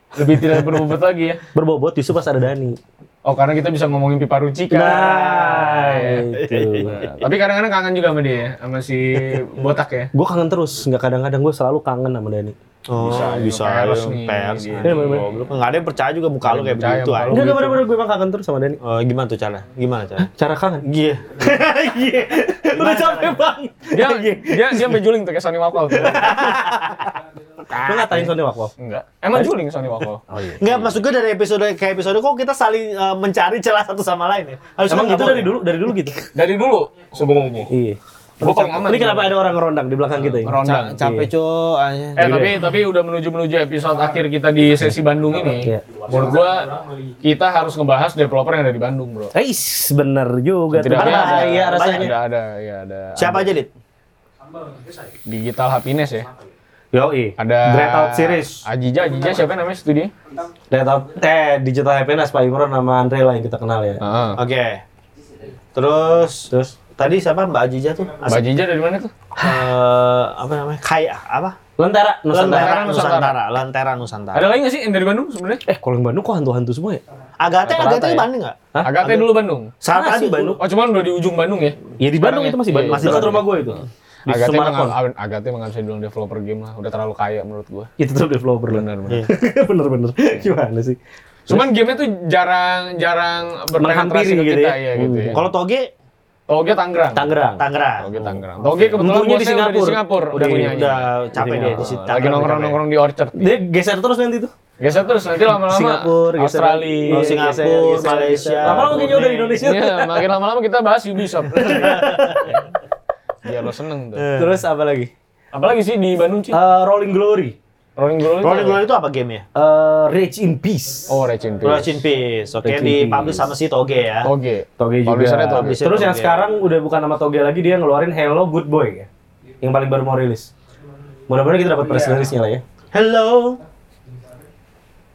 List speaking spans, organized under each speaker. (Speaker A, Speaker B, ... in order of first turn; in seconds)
Speaker A: 0.1-1.4, 3.2-6.3, 6.9-10.1, 13.0-15.2, 16.4-17.6, 23.9-26.5, 27.6-30.2, 36.3-37.7, 38.4-39.4, 40.1-41.0, 42.2-49.3, 50.7-53.5, 55.2-56.3, 57.4-60.1, 64.0-64.4, 68.2-69.1, 72.4-73.4, 74.3-75.6, 77.6-78.2, 78.8-79.7, 80.6-83.4, 84.3-87.9, 88.7-89.2, 91.5-95.4, 96.5-97.3, 98.0-101.1, 101.7-103.5, 104.8-107.7, 108.6-112.6, 113.4-114.3, 115.5-116.6, 118.0-118.8, 121.1-122.0, 124.2-125.8
Speaker B: 1.5-2.8, 4.7-7.2, 10.1-12.5, 14.8-15.2, 17.3-18.8, 20.2-20.9, 22.1-25.0, 25.9-26.7, 27.8-28.7, 30.3-31.0, 34.9-36.1, 37.7-41.3, 42.2-42.5, 49.3-52.1, 56.9-57.4, 60.7-64.0, 66.5-66.8, 71.8-72.8, 75.7-77.0, 79.9-80.6, 82.0-85.0, 88.0-91.7, 93.8-95.4, 97.1-97.7, 98.9-101.9, 103.4-104.5, 105.6-110.2, 111.8-112.5, 114.3-115.1, 116.5-117.5, 119.5-121.1, 122.6-123.5, 124.8-129.1, 129.6-130.5, 131.3-132.6
Speaker C: 5.3-5.6, 6.3-7.0, 12.9-17.8, 18.8-20.3, 20.8-23.5, 26.2-27.1, 30.6-36.3, 40.6-42.6, 50.9-52.1, 53.1-53.7, 57.6-58.6, 64.3-64.8, 65.7-68.4, 69.4-71.5, 72.3-74.5, 77.4-79.3, 79.8-80.6, 82.8-83.8, 95.3-95.9, 97.6-98.1, 100.3-102.8, 107.1-109.2, 111.7-112.4, 114.2-114.6, 118.4-119.4, 121.6-124.3, 125.5-126.5, 132.9-133.6